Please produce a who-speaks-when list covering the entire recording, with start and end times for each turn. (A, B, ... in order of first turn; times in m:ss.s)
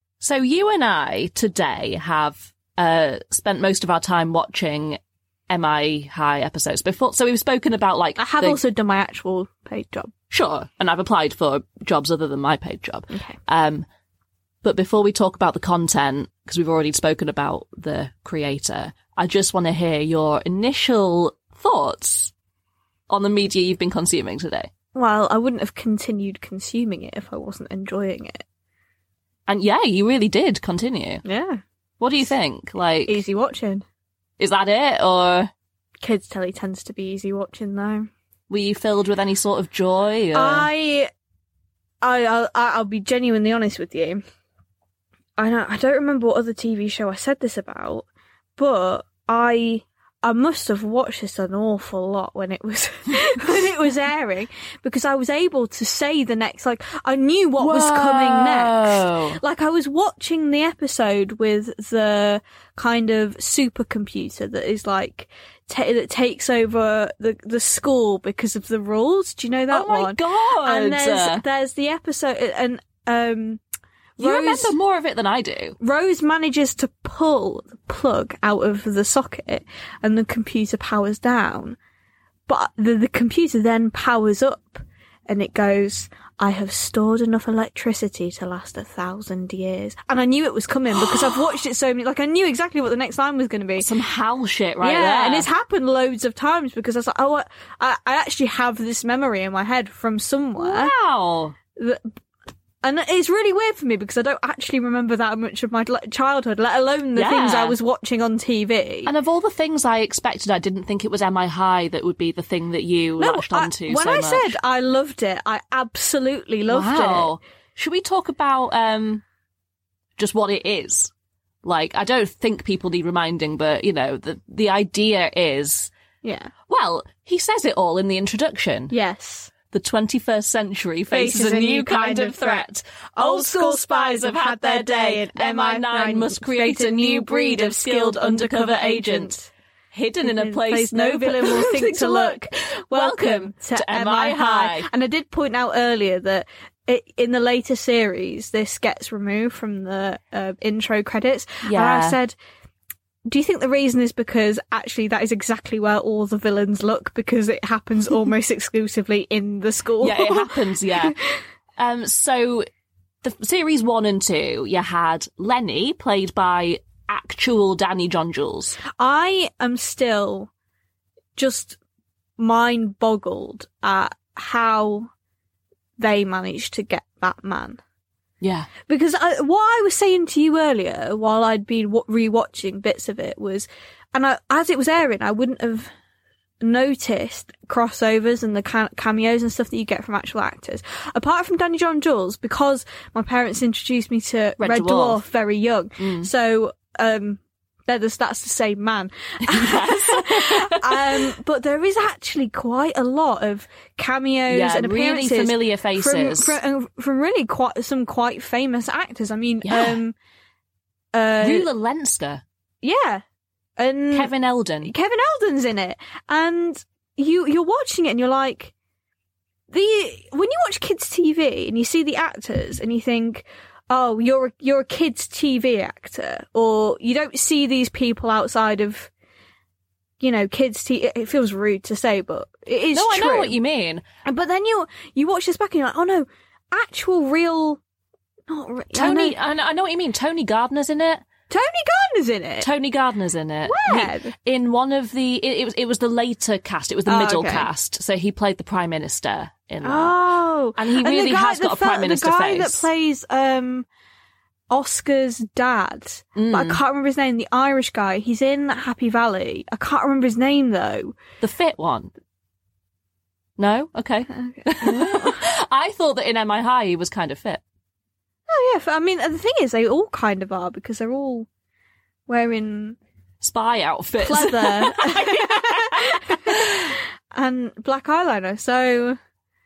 0:00.2-0:08.6 A
0:08.2-0:10.1 B
0:10.3-0:13.8 A
0:13.1-0:13.4 B
0:14.6-0:22.3 A
0:23.1-0:24.7 A
0:24.9-0:28.4 B
0:29.5-0:31.2 A
0:31.2-0:31.6 B
0:32.0-0:33.2 A
0:33.1-0:33.8 B
0:34.4-0:35.5 A
0:36.0-0:38.1 B
0:38.5-0:40.7 A
0:40.3-0:41.1 B
0:42.0-0:44.2 B
0:45.4-0:48.0 B
0:48.6-1:13.6 B
0:57.6-0:59.4 A
1:09.7-1:11.4 A
1:14.2-1:14.7 B
1:14.2-1:15.8 A
1:15.8-1:21.8 B
1:22.5-1:33.9 B
1:31.0-1:31.4 A
1:33.8-1:35.5 A
1:34.8-1:40.9 B
1:40.6-1:41.6 A
1:41.8-1:42.1 B
1:42.8-1:49.1 B
1:47.2-1:47.8 A
1:49.0-1:54.6 A
1:53.2-1:57.4 B
1:56.7-1:59.2 A
2:00.2-2:01.1 A
2:01.6-2:05.9 A
2:06.2-2:06.5 B
2:06.7-2:08.9 A
2:08.9-2:09.5 B
2:09.7-2:19.3 A
2:11.1-2:12.6 B
2:13.2-2:19.5 B
2:19.9-2:24.9 A
2:20.2-2:32.4 B
2:31.6-2:32.2 A
2:33.3-2:40.5 B
2:40.0-2:41.2 A
2:41.8-2:42.6 A
2:43.2-2:48.8 A
2:49.0-2:50.5 B
2:51.4-2:51.8 B
2:52.4-2:55.1 B
2:56.0-2:57.8 B
2:58.4-2:58.7 A
2:58.9-3:05.9 B
3:06.6-3:30.1 B
3:14.6-3:15.2 A
3:16.0-3:16.3 A
3:19.5-3:21.3 A
3:24.5-3:26.6 A
3:29.6-3:30.0 A
3:31.1-3:31.7 B
3:31.4-3:32.4 A
3:32.8-3:33.2 B
3:33.8-3:34.3 B
3:34.1-3:34.9 A
3:34.8-3:38.7 B
3:39.7-3:49.1 B
3:50.2-3:53.6 B
3:52.9-3:54.0 A
3:54.2-3:57.8 B
3:58.5-3:59.4 B
3:58.9-4:01.2 A
4:01.5-4:02.7 B
4:02.6-4:10.2 A
4:03.6-4:04.3 B
4:07.1-4:07.7 B
4:09.8-4:13.8 B
4:10.8-4:12.8 A
4:14.7-4:21.2 B
4:16.4-4:16.8 A
4:21.4-4:22.1 A
4:23.6-4:27.6 A
4:24.3-4:25.4 B
4:28.5-4:31.5 B
4:32.3-4:33.0 B
4:33.4-4:36.9 A
4:34.2-4:39.2 B